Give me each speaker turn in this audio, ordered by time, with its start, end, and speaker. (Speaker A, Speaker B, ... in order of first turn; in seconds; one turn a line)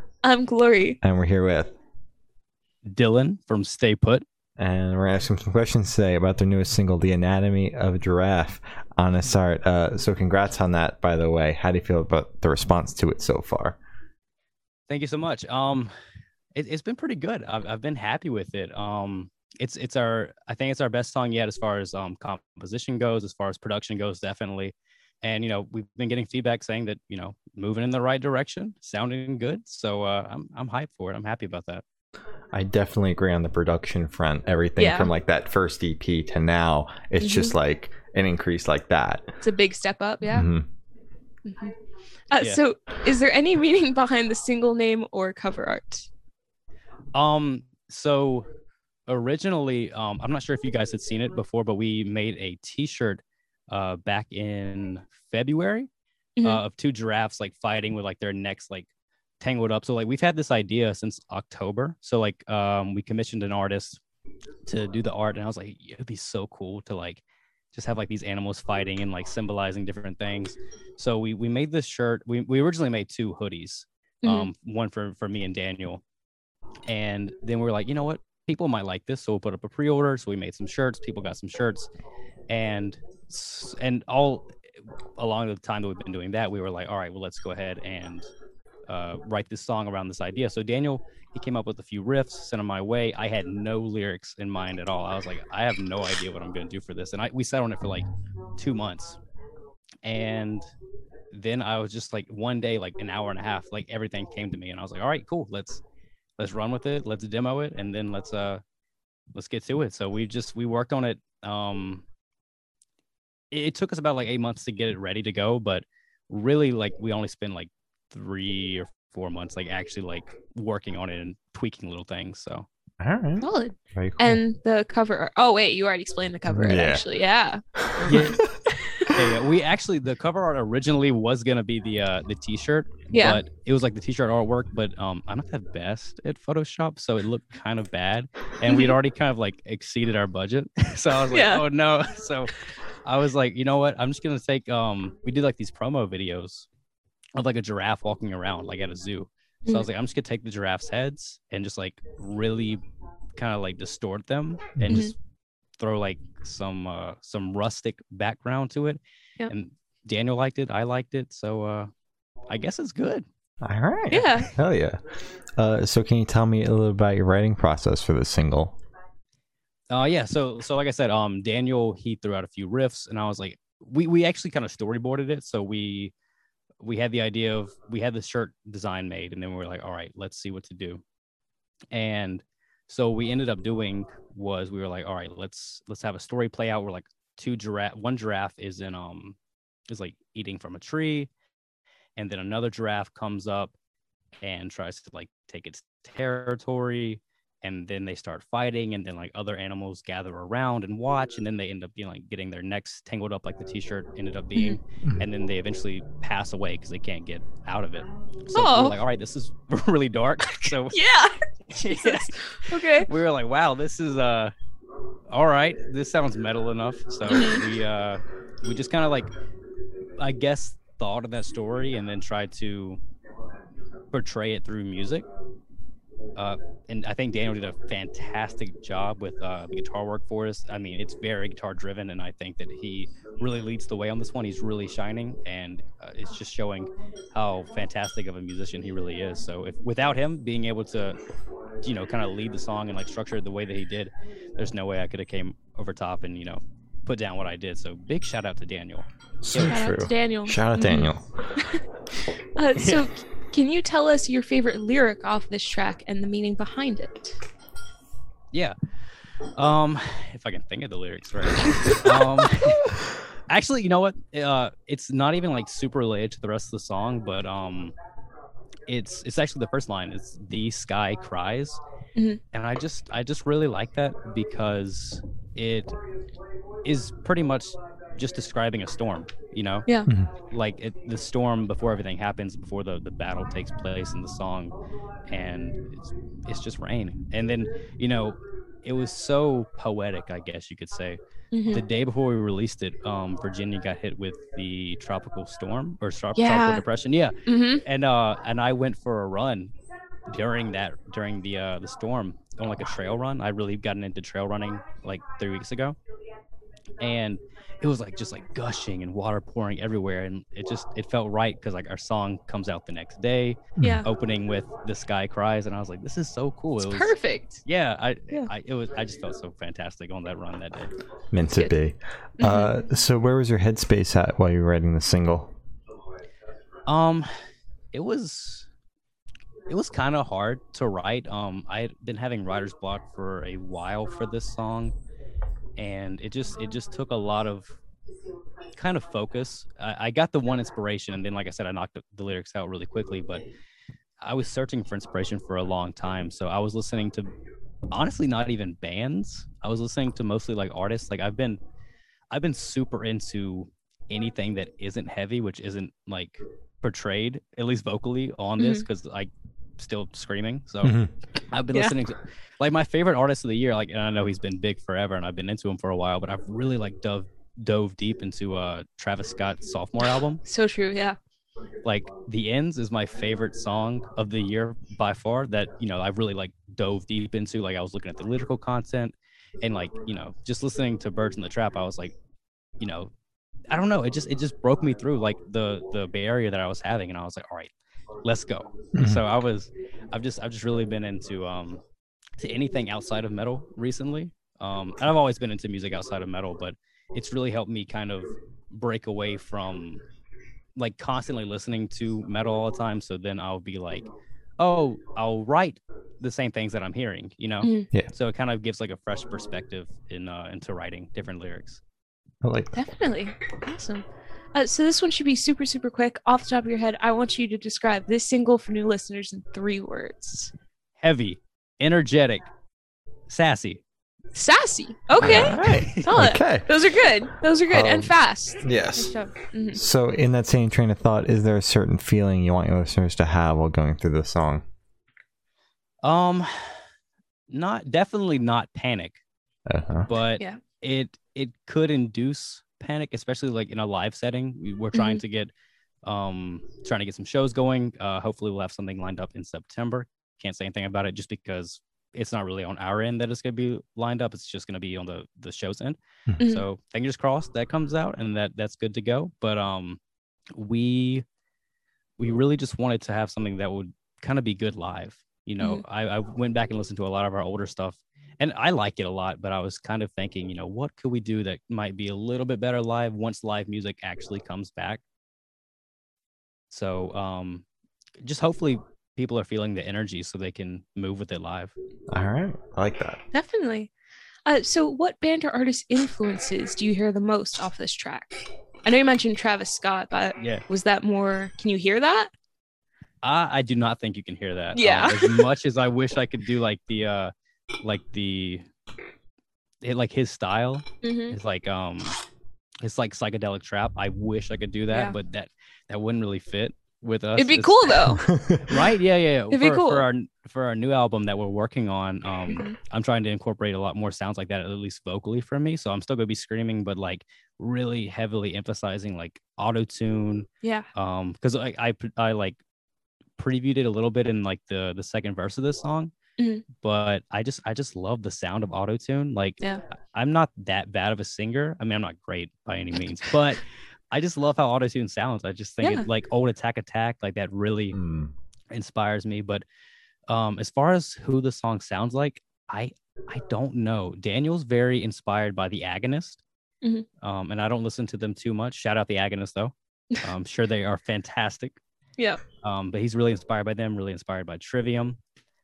Speaker A: 0.2-1.0
Speaker B: 1.0-1.7
Speaker C: 2.9-4.2
Speaker B: 4.6-13.8
Speaker C: 14.9-15.9
Speaker C: 16.5-31.8
Speaker B: 32.5-39.3
Speaker A: 34.8-35.1
Speaker A: 37.2-37.5
Speaker A: 39.4-40.5
Speaker B: 40.2-40.6
Speaker A: 41.4-41.7
Speaker A: 42.3-46.1
Speaker C: 47.1-48.5
Speaker C: 49.1-55.9
Speaker C: 56.4-58.9
Speaker C: 59.4-64.0
Speaker C: 64.7-76.0
Speaker A: 74.2-74.5
Speaker C: 76.9-81.9
Speaker C: 82.5-84.5
Speaker C: 85.2-88.3
Speaker C: 88.9-99.2
Speaker C: 100.0-100.7
Speaker C: 101.3-105.8
Speaker C: 106.4-108.6
Speaker C: 109.3-112.0
Speaker C: 113.5-122.7
Speaker B: 123.0-124.4
Speaker A: 123.4-128.4
Speaker B: 126.5-127.0
Speaker B: 127.9-128.4
Speaker C: 128.0-128.4
Speaker C: 129.1-146.7
Speaker A: 133.1-133.4
Speaker A: 138.7-138.9
Speaker A: 141.3-141.6
Speaker C: 147.3-152.8
Speaker C: 153.3-155.1
Speaker B: 154.8-155.1
Speaker C: 155.8-161.9
Speaker C: 162.5-163.2
Speaker B: 163.6-165.0
Speaker A: 164.1-164.5
Speaker B: 165.6-168.8
Speaker C: 169.9-176.1
Speaker C: 176.8-181.0
Speaker C: 181.9-189.4
Speaker C: 189.9-191.3
Speaker C: 192.2-193.7
Speaker C: 194.4-211.0
Speaker A: 208.5-209.0
Speaker A: 210.9-213.1
Speaker C: 211.7-214.5
Speaker C: 215.3-219.3
Speaker A: 217.3-217.6
Speaker C: 220.2-223.0
Speaker C: 224.1-225.2
Speaker C: 226.3-241.2
Speaker C: 241.8-249.8
Speaker B: 249.4-251.3
Speaker A: 249.6-251.8
Speaker A: 252.6-257.4
Speaker C: 252.8-253.1
Speaker C: 259.5-263.0
Speaker C: 263.5-267.9
Speaker C: 268.9-271.8
Speaker C: 272.5-275.9
Speaker C: 276.8-279.9
Speaker B: 280.1-280.3
Speaker C: 280.5-284.7
Speaker C: 285.3-299.7
Speaker A: 291.5-291.8
Speaker A: 296.4-296.8
Speaker A: 297.4-297.8
Speaker C: 300.3-306.0
Speaker C: 307.0-321.0
Speaker A: 313.8-314.1
Speaker A: 316.8-317.6
Speaker B: 321.3-325.5
Speaker A: 322.4-322.8
Speaker C: 326.9-327.3
Speaker C: 327.9-328.7
Speaker C: 329.7-334.9
Speaker C: 335.8-337.8
Speaker C: 338.7-343.4
Speaker C: 344.2-347.3
Speaker C: 347.9-351.6
Speaker C: 352.3-361.0
Speaker A: 358.6-358.8
Speaker B: 360.8-361.1
Speaker C: 361.5-370.4
Speaker A: 370.4-371.2
Speaker C: 371.8-382.1
Speaker C: 382.8-383.1
Speaker C: 383.7-391.8
Speaker B: 388.9-389.2
Speaker C: 392.4-400.0
Speaker C: 400.8-404.1
Speaker C: 404.6-411.8
Speaker A: 407.6-407.9
Speaker B: 412.4-412.8
Speaker A: 412.7-420.5
Speaker C: 421.0-422.4
Speaker C: 423.3-423.8
Speaker A: 424.3-429.8
Speaker C: 425.2-426.1
Speaker B: 425.2-426.7
Speaker B: 427.7-429.1
Speaker B: 429.7-434.6
Speaker C: 436.0-436.8
Speaker C: 437.5-439.2
Speaker B: 439.7-440.1
Speaker C: 440.1-445.5
Speaker A: 444.9-445.2
Speaker C: 446.0-460.0
Speaker C: 460.5-461.2
Speaker C: 462.2-475.0
Speaker A: 465.6-465.8
Speaker C: 476.7-477.6
Speaker C: 478.2-481.7
Speaker B: 482.1-483.2
Speaker A: 483.3-483.9
Speaker A: 484.4-492.3
Speaker C: 490.4-490.6
Speaker C: 493.2-498.7
Speaker A: 494.7-495.5
Speaker C: 499.8-502.2
Speaker A: 501.0-501.4
Speaker C: 502.8-522.6
Speaker A: 504.9-505.1
Speaker A: 507.4-508.3
Speaker A: 509.5-510.0
Speaker A: 512.5-512.8
Speaker C: 523.4-526.1
Speaker A: 526.4-526.6
Speaker C: 526.8-538.0
Speaker B: 537.9-538.3
Speaker C: 538.7-539.6
Speaker C: 540.3-546.4
Speaker C: 547.2-551.8
Speaker C: 552.6-555.2